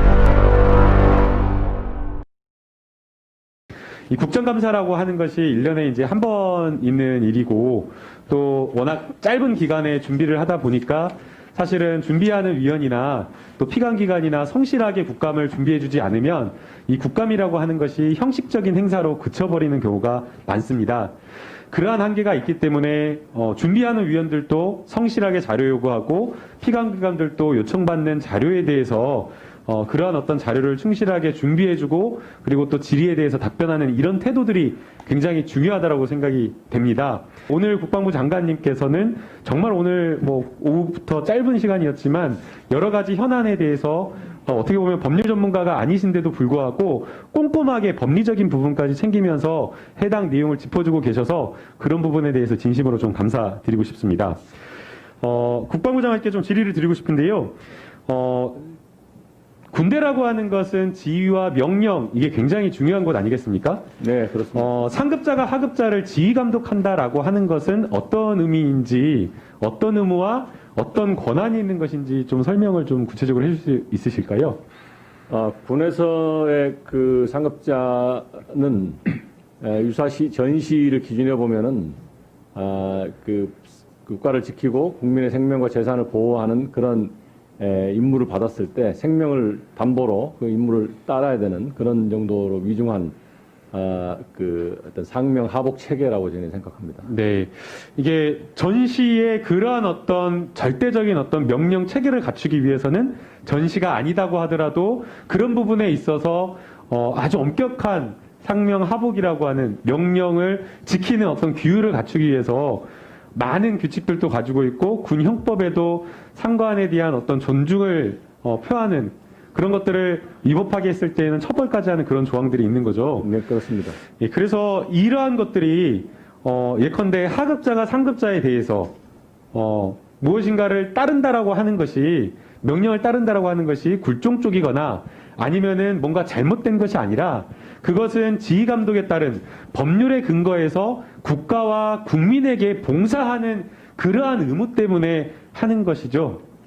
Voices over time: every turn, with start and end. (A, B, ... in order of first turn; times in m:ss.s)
0:04.1-0:21.1 A
0:21.7-0:54.4 A
0:55.2-0:58.6 A
0:59.7-1:03.9 A
1:04.0-1:04.8 B
1:04.5-1:14.6 A
1:15.3-1:22.0 B
1:22.5-1:33.2 B
1:33.7-1:37.1 B
1:37.1-2:03.3 A
2:03.2-2:04.0 B
2:04.1-2:08.9 A
2:09.5-2:26.4 A